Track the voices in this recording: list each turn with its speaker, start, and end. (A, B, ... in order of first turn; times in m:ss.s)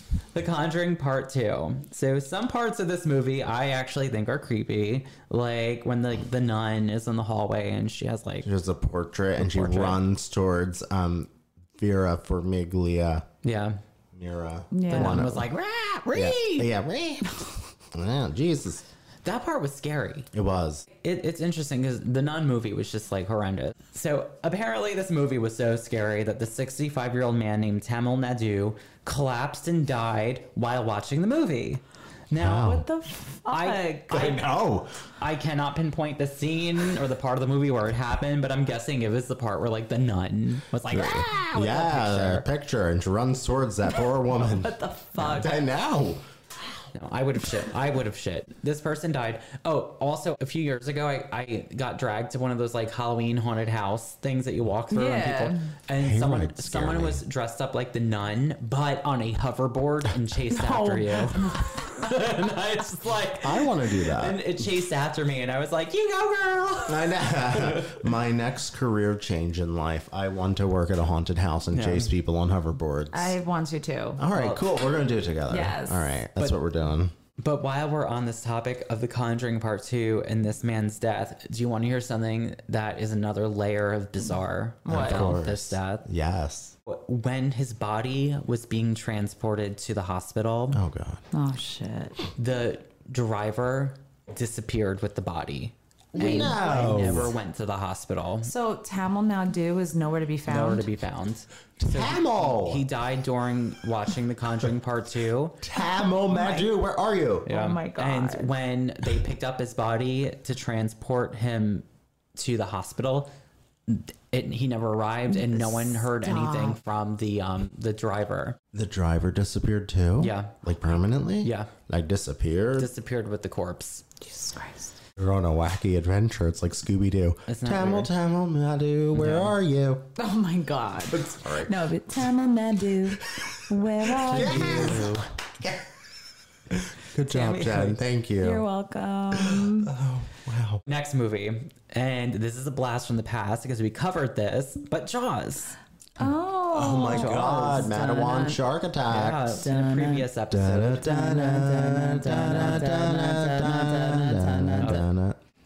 0:00.3-0:08.5 A
0:08.4-0:13.2 B
0:09.4-0:10.0 A
0:13.4-0:13.8 A
0:14.1-0:15.5 B
0:14.7-0:15.3 C
0:14.9-0:16.7 A
0:16.1-0:18.8 B
0:19.2-0:20.3 A
0:20.3-0:20.8 B
0:21.0-0:32.8 A
0:32.4-0:32.8 B
0:32.6-0:34.3 C
0:33.5-0:34.4 A
0:34.1-0:35.0 B
0:35.2-0:42.5 A
0:40.9-0:46.2 B
0:44.4-0:45.6 C
0:46.9-1:08.0 A
0:54.9-0:55.7 C
0:55.9-0:57.2 B
1:00.5-1:01.7 C
1:03.4-1:04.4 B
1:06.9-1:13.4 B
1:11.7-1:12.1 A
1:13.1-1:14.2 C
1:14.2-1:17.1 B
1:14.3-1:14.6 A
1:15.5-1:16.1 C
1:17.4-1:26.0 A
1:24.8-1:25.4 C
1:24.9-1:26.7 B
1:26.8-1:30.8 A
1:30.7-1:31.2 B
1:31.3-1:32.2 C
1:32.4-1:38.5 A
1:36.1-1:37.2 C
1:36.1-1:37.3 B
1:38.4-1:40.9 C
1:40.5-1:45.6 A
1:41.8-1:42.8 B
1:45.6-1:47.5 B
1:46.3-1:46.7 C
1:47.4-1:51.8 A
1:47.5-1:48.5 C
1:52.4-1:53.3 A
1:53.9-1:58.6 A
1:55.3-1:56.8 C
1:58.7-2:02.9 B
2:00.2-2:00.6 A
2:01.4-2:01.7 A
2:02.8-2:04.0 A
2:04.2-2:04.9 C
2:05.2-2:10.1 B
2:07.5-2:08.1 A
2:09.1-2:09.5 A
2:10.2-2:15.1 C
2:11.1-2:11.9 B
2:13.3-2:16.0 B
2:14.3-2:15.3 A
2:16.7-2:18.6 B
2:17.3-2:18.0 A
2:18.4-2:19.9 C
2:19.3-2:20.8 B
2:20.9-2:25.8 A
2:26.2-2:28.6 C
2:26.7-2:29.6 B
2:27.1-2:27.8 A
2:29.0-2:31.3 A
2:29.5-2:30.3 C
2:30.5-2:35.4 B
2:30.9-2:35.0 C
2:32.2-2:32.8 A
2:34.8-2:35.0 A